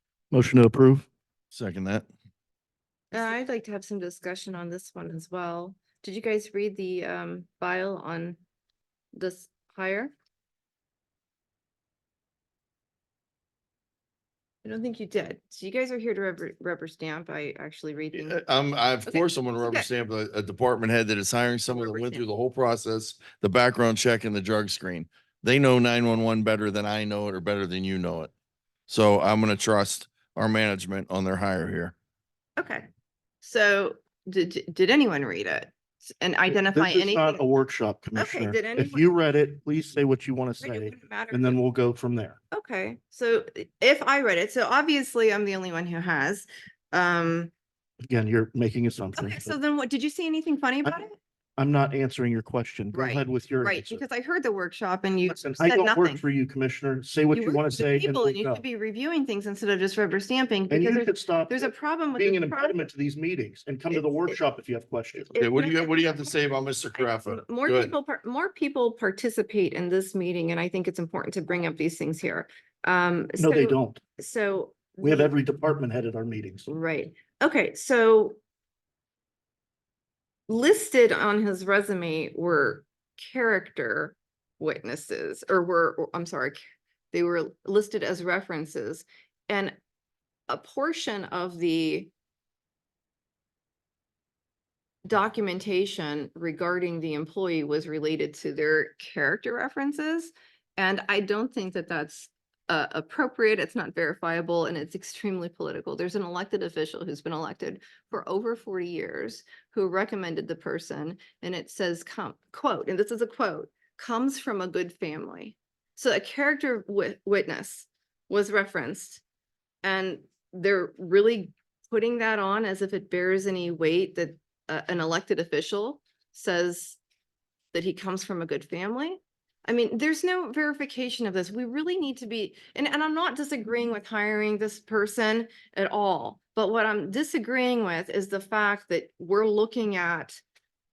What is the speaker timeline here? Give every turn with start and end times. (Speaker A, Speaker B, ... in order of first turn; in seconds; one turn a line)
Speaker A: 0.3-1.1
Speaker B: 1.5-2.0
Speaker C: 3.1-8.4
Speaker C: 9.1-10.1
Speaker C: 14.6-18.4
Speaker B: 18.1-28.3
Speaker C: 19.1-19.9
Speaker C: 21.8-22.2
Speaker B: 28.9-31.9
Speaker C: 32.6-32.9
Speaker C: 33.4-37.4
Speaker A: 36.5-42.4
Speaker C: 38.1-39.0
Speaker C: 40.6-41.6
Speaker C: 42.5-47.5
Speaker A: 48.1-49.5
Speaker C: 49.1-51.2
Speaker A: 51.6-54.0
Speaker C: 52.9-56.2
Speaker A: 55.2-58.6
Speaker C: 57.3-62.8
Speaker A: 60.7-65.3
Speaker C: 63.9-64.3
Speaker C: 65.2-66.3
Speaker B: 65.4-67.9
Speaker C: 67.0-75.3
Speaker A: 73.4-74.0
Speaker A: 75.0-76.7
Speaker C: 76.7-78.4
Speaker C: 80.5-86.6
Speaker C: 87.1-89.7
Speaker C: 90.5-92.1
Speaker C: 95.0-119.2
Speaker C: 119.8-127.0
Speaker C: 127.7-140.4